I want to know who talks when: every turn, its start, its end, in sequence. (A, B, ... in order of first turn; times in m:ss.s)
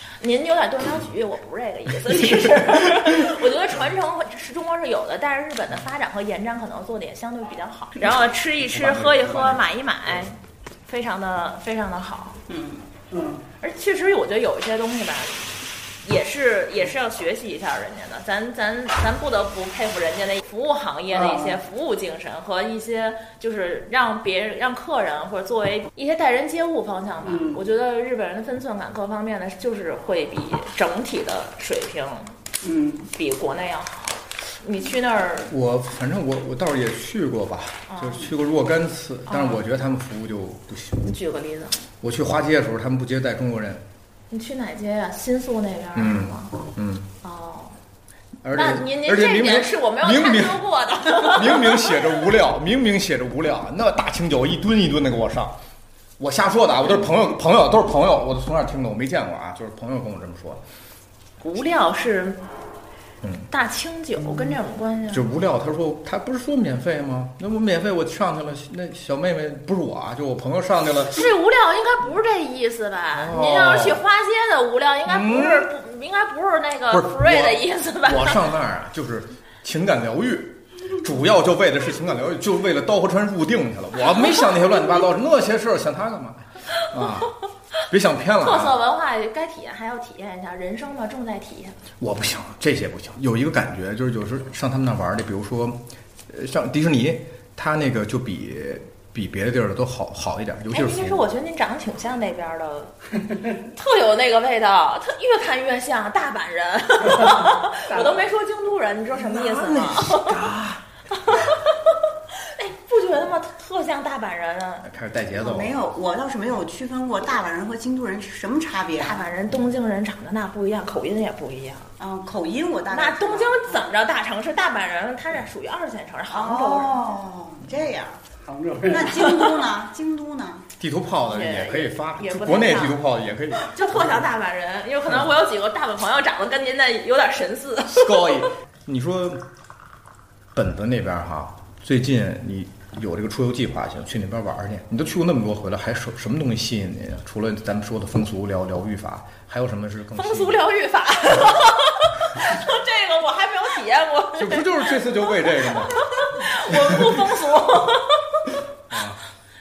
0:00.2-0:10.3 A
0:02.3-0:03.1 B
0:08.6-0:09.6 B
0:10.8-0:12.4 A
0:12.5-0:12.8 C
0:13.1-0:13.4 D
0:13.6-0:15.5 A
0:16.0-0:32.3 A
0:21.1-0:21.6 D
0:27.2-0:27.6 D
0:32.6-0:33.1 D
0:33.1-0:35.5 A
0:35.5-0:41.1 B
0:37.9-0:38.3 A
0:39.3-0:39.6 A
0:41.0-0:41.8 A
0:42.0-0:43.8 B
0:44.3-0:46.5 A
0:45.9-0:47.1 B
0:47.2-0:47.7 A
0:48.4-0:55.5 B
0:48.5-0:52.2 A
0:56.2-1:00.6 B
1:01.4-1:02.4 A
1:03.2-1:03.5 B
1:03.5-1:05.2 A
1:05.1-1:11.3 B
1:11.1-1:18.4 A
1:13.1-1:14.0 B
1:15.0-1:15.7 B
1:16.9-1:27.3 B
1:27.9-1:28.8 B
1:28.4-1:31.8 A
1:32.0-1:41.2 B
1:40.7-1:42.9 A
1:43.7-1:50.4 A
1:47.9-1:48.3 D
1:49.2-1:50.8 B
1:51.1-1:54.9 A
1:54.8-1:55.7 B
1:55.3-1:59.3 C
1:59.0-2:01.9 A
2:02.0-2:03.8 C
2:02.9-2:07.0 A
2:06.3-2:08.2 C
2:08.4-2:09.2 D
2:08.8-2:10.6 C
2:10.8-2:14.2 B
2:11.2-2:13.0 A
2:13.6-2:18.5 A
2:17.9-2:19.4 B
2:20.5-2:30.6 B
2:30.2-2:38.5 A
2:34.4-2:36.0 B
2:36.7-2:37.1 B
2:38.9-2:39.2 B